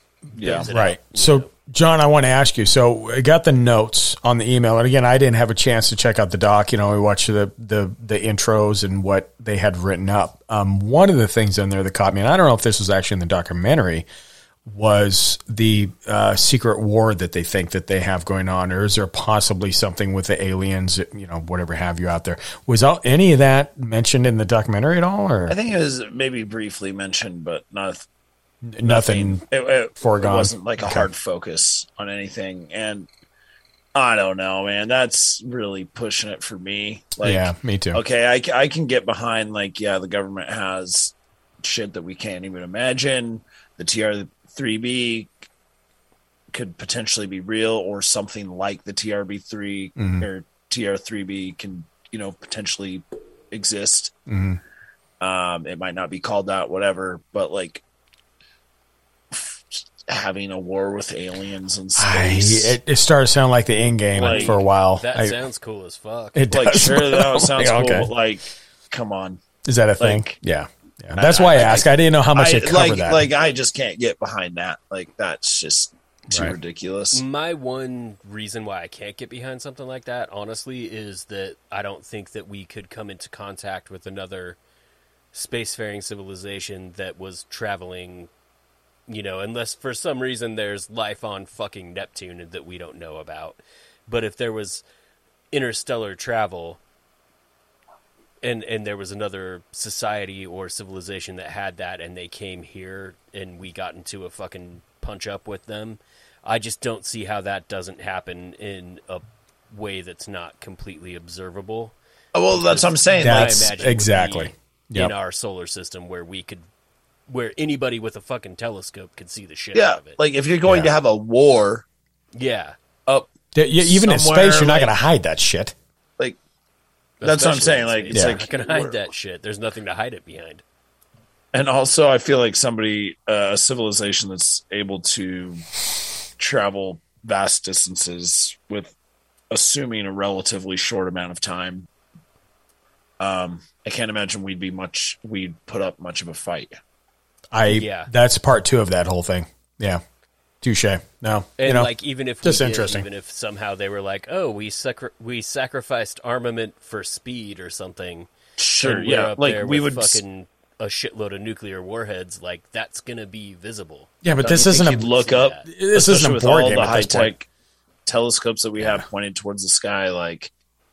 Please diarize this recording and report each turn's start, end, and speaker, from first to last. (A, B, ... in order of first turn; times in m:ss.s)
0:00.4-0:00.7 A
0:00.4-0:01.5 B
0:00.5-0:14.0 C
0:14.6-0:25.6 C
0:25.5-0:28.0 A
0:28.6-0:31.1 C
0:28.8-0:33.1 A
0:33.9-0:45.3 A
0:37.2-0:38.0 C
0:46.5-0:54.1 A
0:49.9-0:50.3 C
0:54.3-0:54.6 C
0:55.2-0:57.8 A
0:59.3-1:02.8 A
1:02.0-1:05.4 C
1:04.1-1:04.6 A
1:04.1-1:06.5 B
1:06.3-1:08.1 C
1:06.5-1:09.4 A
1:09.6-1:13.3 C
1:10.0-1:10.4 A
1:11.1-1:17.2 A
1:16.3-1:16.6 C
1:17.1-1:24.6 B
1:25.3-1:28.3 B
1:29.1-1:34.8 B
1:35.5-1:36.8 B
1:38.4-1:51.9 B
1:52.3-1:53.7 A
1:52.5-1:56.6 B
1:53.2-1:55.1 C
1:57.3-2:00.2 B
1:59.7-2:01.8 A
2:00.6-2:00.9 C
2:02.3-2:02.7 B
2:03.0-2:05.0 A
2:03.5-2:05.7 C
2:07.2-2:10.6 B
2:07.2-2:09.0 A
2:08.1-2:08.4 C
2:11.5-2:15.6 A
2:16.4-2:18.9 A
2:19.5-2:21.9 A
2:23.2-2:26.7 A
2:27.5-2:30.0 C
2:27.7-2:28.1 B
2:30.6-2:31.9 C
2:31.6-2:45.6 B
2:32.4-2:33.1 C
2:38.6-2:40.2 A
2:44.2-2:47.3 C
2:44.4-2:47.5 A
2:48.0-2:50.5 A
2:48.8-2:49.0 C